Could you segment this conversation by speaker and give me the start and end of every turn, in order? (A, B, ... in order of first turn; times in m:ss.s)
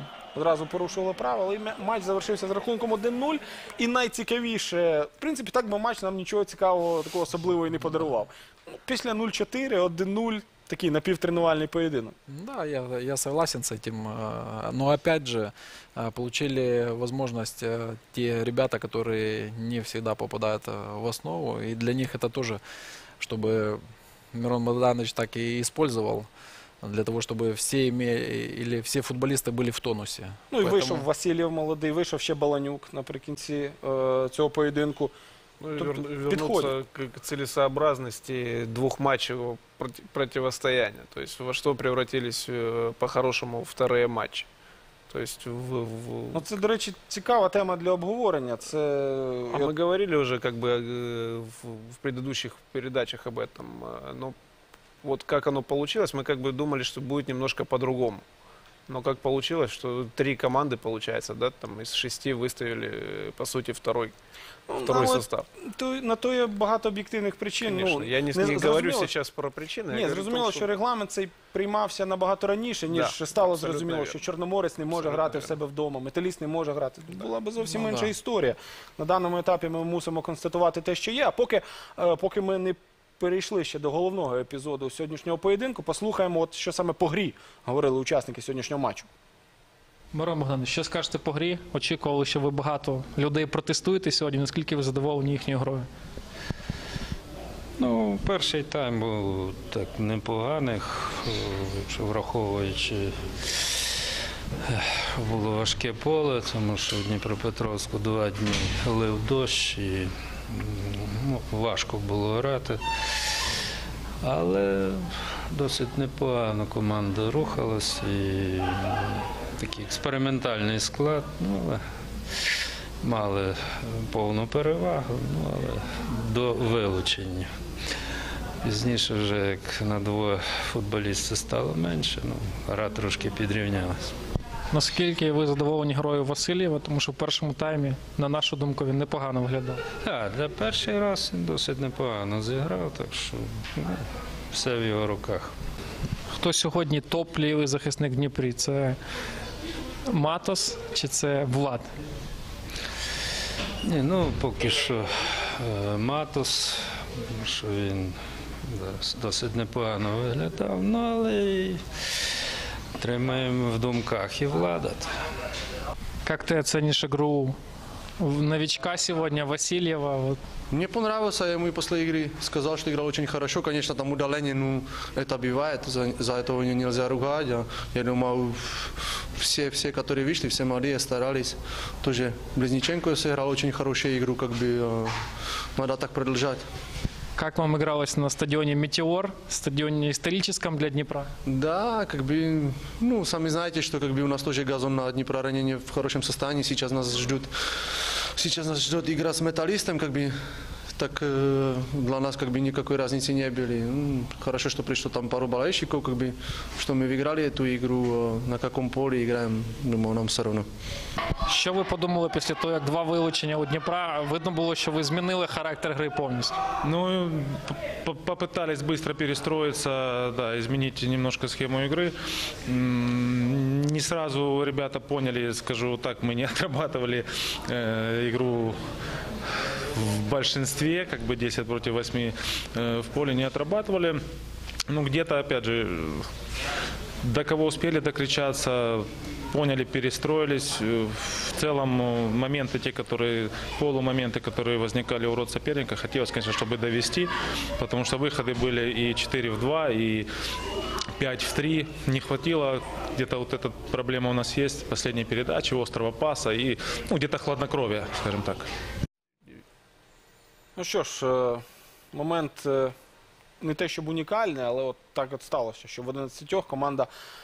0:00.3-0:12.2 A
0:12.3-0:22.6 B
0:23.2-0:23.8 B
0:24.3-0:26.3 B
0:26.8-0:31.1 B
0:30.5-0:35.1 A
0:35.6-0:44.5 C
0:35.8-0:36.7 A
0:45.1-0:46.5 C
0:46.3-0:49.7 A
0:49.5-0:54.4 C
0:55.0-0:58.2 C
0:58.9-1:04.2 C
1:04.7-1:09.1 A
1:04.8-1:05.5 C
1:07.6-1:10.7 C
1:09.9-1:29.1 A
1:12.9-1:14.2 C
1:14.9-1:15.6 C
1:17.6-1:18.1 B
1:30.1-1:35.9 D
1:37.8-1:43.2 E
1:44.6-1:53.4 E
1:54.2-2:01.8 E
2:03.0-2:07.5 E
2:08.6-2:14.1 E
2:14.7-2:19.8 D
2:19.9-2:24.0 E
2:24.5-2:25.5 E
2:26.4-2:29.0 D
2:30.1-2:31.9 D
2:33.8-2:38.2 E
2:38.7-2:41.8 E
2:43.0-2:45.1 E
2:46.2-2:47.6 D
2:48.2-2:50.4 D
2:50.7-3:05.2 F
3:05.8-3:06.6 F
3:07.4-3:11.3 D
3:11.5-3:17.5 F
3:18.4-3:20.4 F
3:21.0-3:30.7 F
3:31.5-3:36.6 D
3:36.8-3:48.8 G
3:49.6-3:54.2 G
3:54.9-3:56.3 G
3:57.2-4:10.3 G
4:11.2-4:18.7 G
4:20.8-4:23.0 A
4:23.6-4:27.1 A